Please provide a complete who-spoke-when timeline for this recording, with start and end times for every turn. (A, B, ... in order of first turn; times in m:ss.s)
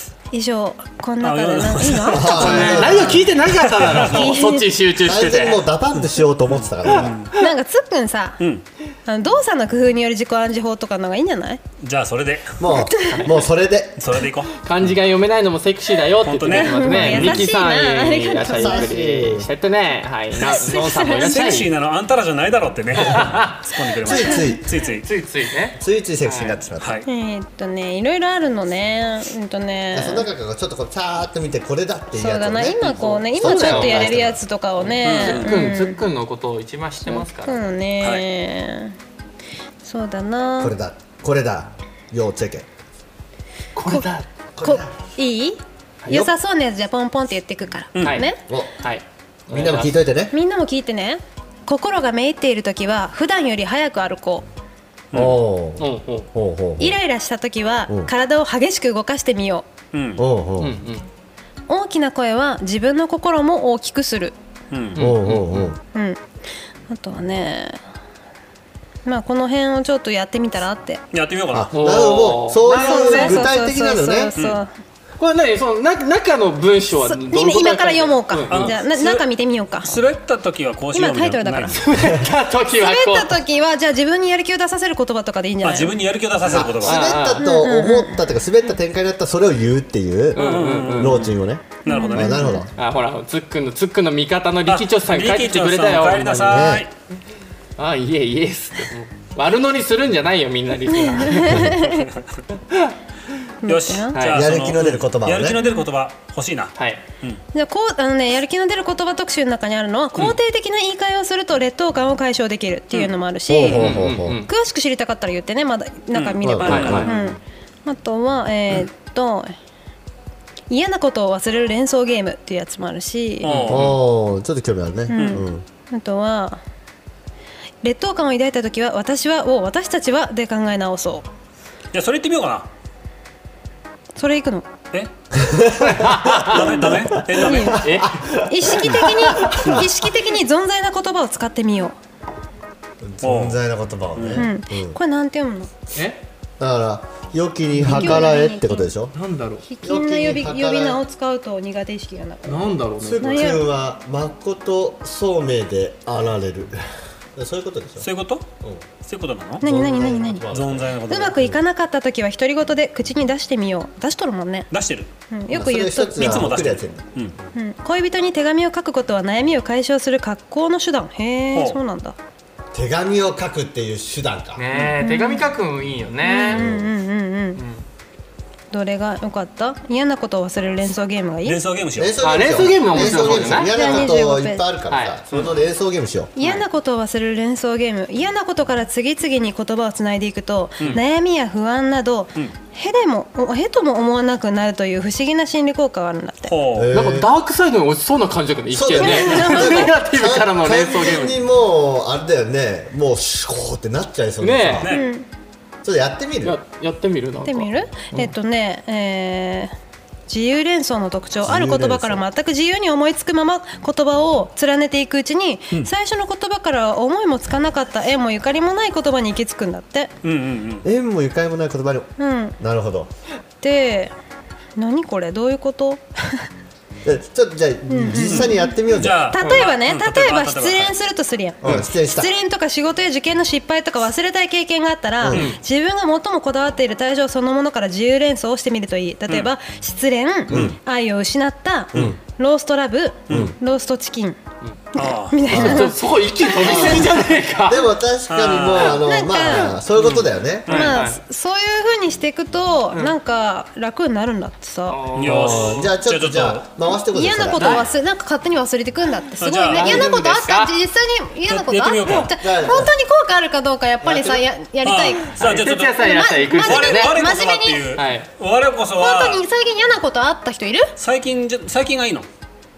0:00.3-0:02.9 A
0:01.2-0:04.3 B
0:02.1-0:03.3 C
0:02.3-0:05.6 D
0:04.1-0:04.7 A
0:05.0-0:07.2 C
0:06.5-0:07.3 B
0:07.4-0:08.4 A
0:09.1-0:11.6 A
0:11.8-0:12.6 B
0:12.6-0:14.2 C
0:12.7-0:13.3 A
0:13.1-0:13.5 D
0:14.0-0:14.5 B
0:14.6-0:21.7 D
0:16.2-0:17.5 B
0:16.5-0:18.9 A
0:18.4-0:19.5 C
0:20.4-0:21.6 A
0:21.2-0:25.1 B
0:23.0-0:23.5 D
0:24.0-0:24.8 C
0:24.9-0:26.6 D
0:25.8-0:27.0 C
0:26.8-0:27.0 B
0:27.1-0:30.3 A
0:29.9-0:34.4 C
0:32.1-0:36.0 A
0:32.8-0:34.2 D
0:34.8-0:37.6 D
0:35.0-0:35.7 B
0:37.1-0:39.0 A
0:39.8-0:40.8 A
0:40.6-0:42.7 C
0:43.8-0:44.2 D
0:44.6-0:44.9 C
0:44.6-0:48.4 A
0:48.0-0:48.2 B
0:48.0-0:48.3 D
0:48.8-0:50.0 D
0:49.5-0:50.3 C
0:50.3-0:54.5 A
0:55.1-0:55.4 B
0:55.1-0:57.0 C
0:55.8-0:56.3 D
0:56.8-0:59.7 A
0:59.9-1:00.2 B
1:00.2-1:00.8 C
1:00.6-1:01.1 D
1:01.7-1:04.4 A
1:04.7-1:05.0 B
1:04.9-1:05.7 D
1:05.0-1:05.8 C
1:05.9-1:06.2 A
1:06.9-1:07.8 A
1:09.0-1:11.0 A
1:11.1-1:11.7 B
1:11.5-1:14.3 C
1:11.7-1:13.5 D
1:12.8-1:14.7 A
1:14.4-1:14.6 B
1:15.2-1:18.7 D
1:17.1-1:20.0 A
1:18.5-1:19.2 B
1:19.8-1:21.9 B
1:20.9-1:21.8 A
1:21.8-1:23.4 D
1:22.8-1:26.0 A
1:25.6-1:27.2 B
1:26.4-1:32.7 C
1:26.8-1:27.4 D
1:27.4-1:28.2 A
1:30.4-1:31.3 B
1:30.4-1:31.3 D
1:31.8-1:32.6 B
1:31.9-1:32.7 A
1:32.8-1:36.8 D
1:34.7-1:36.9 B
1:36.4-1:36.9 C
1:37.8-1:41.7 D
1:41.1-1:42.0 A
1:41.7-1:42.4 B
1:43.6-1:44.2 A
1:43.6-1:47.4 B
1:44.1-1:44.8 D
1:44.3-1:45.6 C
1:46.8-1:47.0 D
1:47.5-1:53.9 A
1:53.5-1:54.4 C
1:53.7-1:54.5 D
1:54.5-1:59.5 A
1:56.1-1:57.1 B
1:56.4-1:57.1 C
1:56.7-1:57.2 D
2:00.7-2:03.6 A
2:03.4-2:04.0 B
2:03.5-2:04.0 D
2:03.7-2:05.6 C
2:05.1-2:06.6 A
2:05.2-2:05.4 B
2:07.8-2:11.3 A
2:11.9-2:12.7 B
2:14.2-2:14.7 A
2:15.3-2:19.9 C
2:15.8-2:16.8 D
2:16.4-2:17.9 B
2:17.4-2:17.8 A
2:17.7-2:18.1 D
2:18.4-2:22.0 A
2:18.8-2:19.5 D
2:23.0-2:25.0 C
2:23.2-2:23.6 B
2:24.2-2:24.5 B
2:24.4-2:25.7 A
2:26.0-2:26.2 D
2:26.6-2:29.2 C
2:27.8-2:28.2 D
2:27.9-2:28.9 A
2:29.2-2:29.6 D
2:29.7-2:33.7 A
2:29.8-2:31.0 C
2:32.4-2:33.6 D
2:33.0-2:36.8 C
2:37.4-2:38.1 C
2:38.0-2:38.5 B
2:39.0-2:39.6 B
2:39.6-2:40.5 A
2:39.6-2:40.9 C
2:40.5-2:41.6 B
2:41.1-2:44.7 A
2:44.7-2:45.1 B
2:45.3-2:46.5 A
2:45.5-2:47.0 C
2:46.2-2:47.4 B
2:47.6-2:52.2 A
2:51.5-2:51.8 B
2:52.7-2:54.6 C
2:54.6-2:56.6 D
2:55.0-2:55.5 A
2:56.2-2:57.6 A
2:56.5-2:56.9 C
2:57.6-2:57.8 D
2:58.7-3:01.6 A
3:01.4-3:02.2 B
3:02.0-3:06.3 C
3:02.2-3:04.1 D
3:03.6-3:04.7 A
3:04.9-3:05.2 D
3:06.4-3:16.6 A
3:16.4-3:17.0 B
3:16.7-3:17.3 C
3:16.9-3:21.4 D
3:18.7-3:24.9 C
3:19.0-3:19.9 A
3:24.4-3:24.9 D
3:24.8-3:25.1 B
3:24.9-3:25.3 A
3:25.8-3:26.6 C
3:26.4-3:28.3 D
3:27.4-3:29.7 A
3:30.3-3:40.1 A
3:31.4-3:32.2 C
3:40.2-3:40.9 B
3:40.8-3:43.1 C
3:42.2-3:42.6 A
3:43.6-3:44.1 A
3:44.8-3:46.5 A
3:47.0-3:49.2 C
3:47.9-3:48.8 A
3:48.2-3:50.9 B
3:49.3-4:04.4 A
3:49.4-3:49.7 D
3:51.6-3:52.3 C
3:55.2-3:55.5 C
3:55.3-3:55.6 D
4:00.5-4:00.8 C
4:03.3-4:03.6 C
4:03.3-4:03.6 B
4:04.9-4:06.9 A
4:05.0-4:05.7 B
4:05.5-4:05.9 C
4:05.5-4:07.9 D
4:06.6-4:10.9 C
4:08.3-4:09.0 B
4:08.9-4:09.8 A
4:10.0-4:11.0 B
4:10.7-4:11.2 D
4:10.7-4:15.0 A
4:14.9-4:15.9 D
4:15.2-4:16.6 B
4:15.2-4:17.9 C
4:17.1-4:25.4 A
4:19.4-4:20.1 B
4:19.7-4:20.8 D
4:21.5-4:22.3 B
4:22.4-4:22.9 C
4:24.0-4:24.4 C
4:24.8-4:29.4 B
4:25.4-4:27.2 D
4:26.0-4:27.9 A
4:28.0-4:28.3 D
4:29.0-4:30.9 A
4:31.0-4:32.3 B